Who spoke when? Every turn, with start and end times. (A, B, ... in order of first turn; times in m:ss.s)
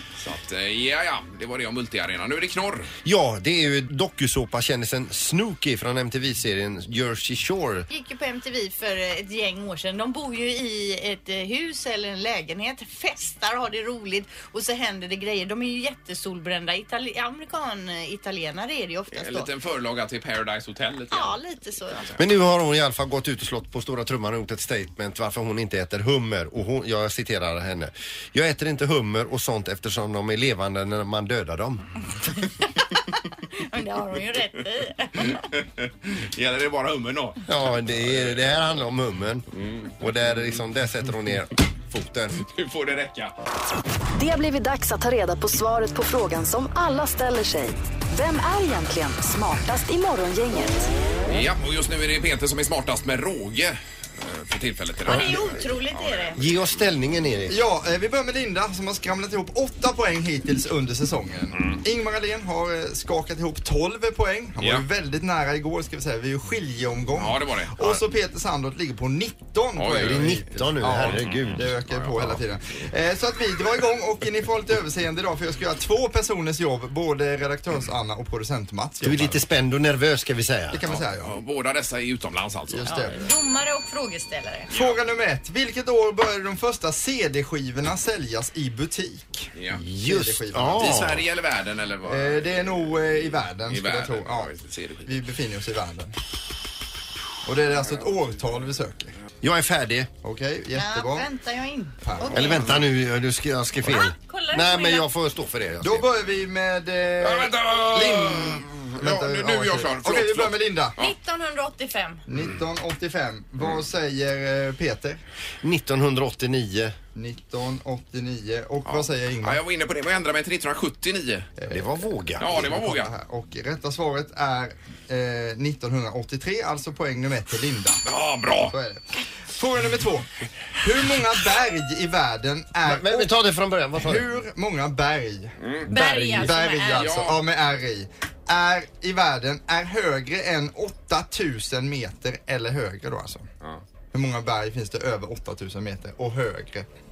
0:00.2-0:02.9 A
0:03.0-0:07.9 B
0:07.9-0:19.5 C
0:19.1-0:22.2 A
0:21.1-0:22.1 C
0:22.2-0:31.8 B
0:32.6-0:33.0 C
0:33.5-0:35.4 C
0:35.2-0:38.6 A
0:37.5-0:39.5 B
0:39.6-0:40.5 A
0:40.0-0:42.4 B
0:42.4-0:43.3 A
0:44.2-0:50.9 D
0:51.3-0:56.8 A
0:55.1-0:56.4 C
0:55.1-0:55.4 B
0:56.4-0:57.6 B
0:57.5-1:19.4 E
1:01.5-1:01.8 A
1:07.2-1:08.0 A
1:09.8-1:12.4 A
1:10.0-1:11.7 B
1:19.0-1:20.8 B
1:20.7-1:21.3 E
1:20.9-1:23.1 A
1:22.7-1:23.3 E
1:22.9-1:24.7 C
1:24.7-1:25.0 A
1:24.7-1:29.5 E
1:29.6-1:29.8 A
1:29.7-1:31.2 B
1:30.0-1:31.1 E
1:30.8-1:35.2 A
1:32.0-1:34.5 E
1:35.1-1:36.1 E
1:37.4-1:39.2 E
1:39.4-1:40.1 B
1:40.2-1:41.3 E
1:40.8-1:42.6 C
1:42.0-1:42.7 E
1:42.3-1:46.1 B
1:42.4-1:42.8 A
1:43.9-1:45.1 C
1:45.8-1:51.0 E
1:47.2-1:51.1 A
1:51.0-1:52.2 C
1:52.3-1:55.2 E
1:55.6-1:57.0 B
1:57.2-1:59.6 E
1:58.8-2:01.5 A
2:01.6-2:08.0 E
2:01.7-2:02.7 B
2:02.4-2:03.1 A
2:08.1-2:08.8 A
2:08.7-2:13.3 E
2:12.8-2:14.3 B
2:14.0-2:15.6 E
2:15.6-2:15.9 A
2:15.9-2:17.1 C
2:15.9-2:16.5 B
2:16.3-2:23.5 E
2:16.9-2:17.4 A
2:24.1-2:26.9 E